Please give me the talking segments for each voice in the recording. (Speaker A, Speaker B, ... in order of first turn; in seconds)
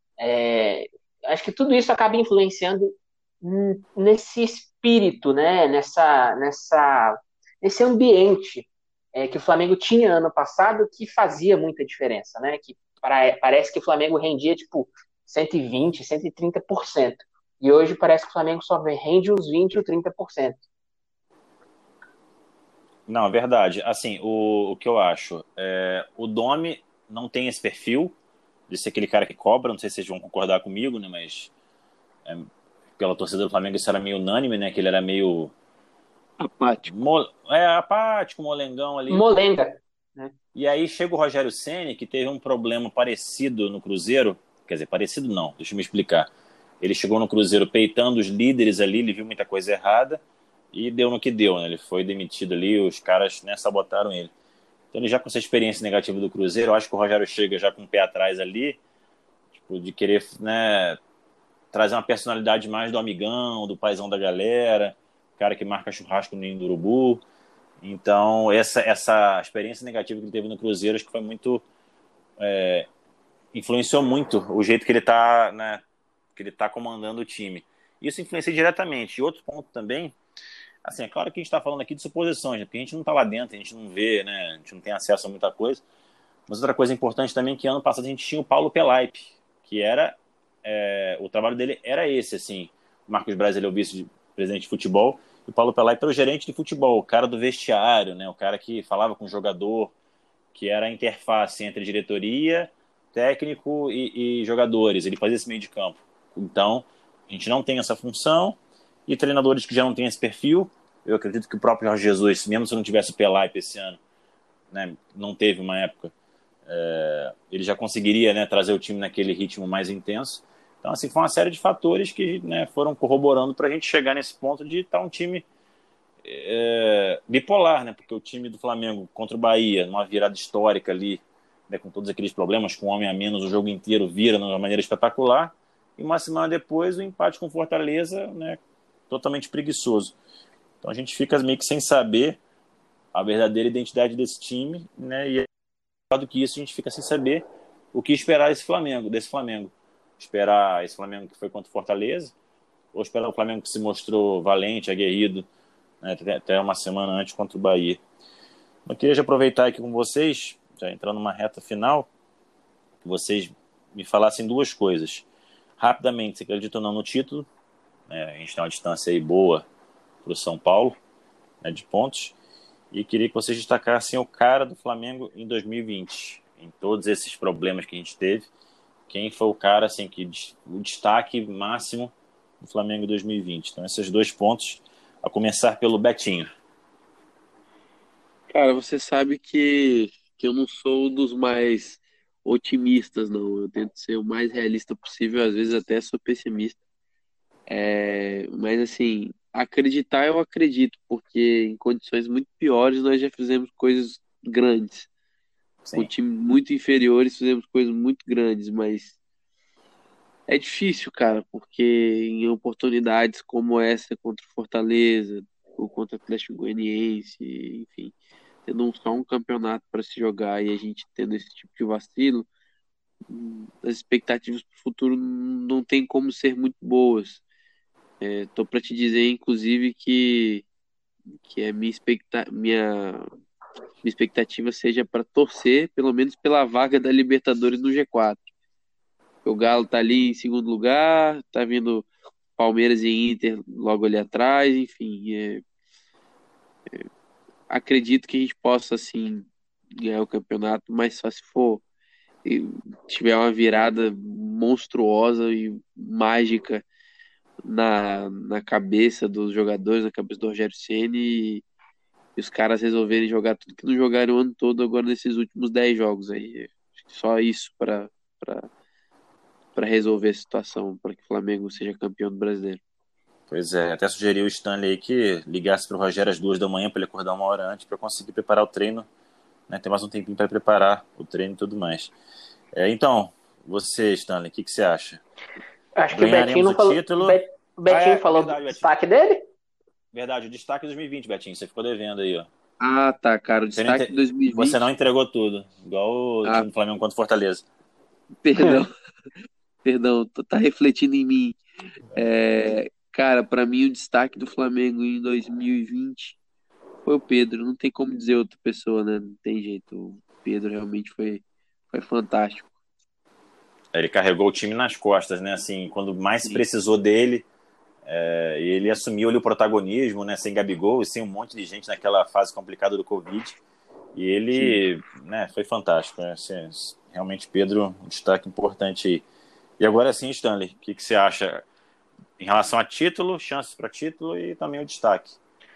Speaker A: 0.2-20.6, 39.1-40.3, 285.9-289.4
Speaker B: 23.1-28.1, 28.7-31.5, 32.2-35.5, 36.9-39.2, 40.5-46.3, 46.8-50.2, 50.7-54.3, 54.9-58.8, 59.5-61.0, 61.7-67.2, 67.8-71.6, 72.4-72.9, 73.5-75.8, 76.3-80.1, 80.8-85.8, 86.5-99.9, 100.5-114.0, 114.7-116.1, 116.7-125.4, 126.2-140.1, 140.8-142.4, 143.1-145.4, 146.1-152.3, 152.9-155.5, 156.0-158.0, 158.8-162.1, 163.0-165.2, 165.8-167.5, 168.1-169.6, 170.2-171.0, 171.6-172.3, 172.9-178.5, 179.1-186.5, 205.8-206.1, 273.5-279.1, 279.7-282.1, 282.7-285.2, 286.1-288.9, 290.1-292.5, 293.8-297.6, 313.9-317.5, 318.1-323.6, 324.1-329.2, 329.8-331.6, 332.4-335.4
Speaker C: 36.4-36.9, 188.5-196.8, 197.7-205.1, 205.9-209.1, 210.5-218.1, 218.7-222.5, 223.3-227.4, 228.2-230.6, 231.3-233.3, 234.0-238.5, 239.4-245.6, 247.7-251.8, 252.4-256.8, 257.6-261.6, 262.4-268.7, 269.7-272.8, 292.8-294.9, 298.4-298.9, 299.8-301.6, 302.1-306.4, 307.0-312.7, 324.5-324.8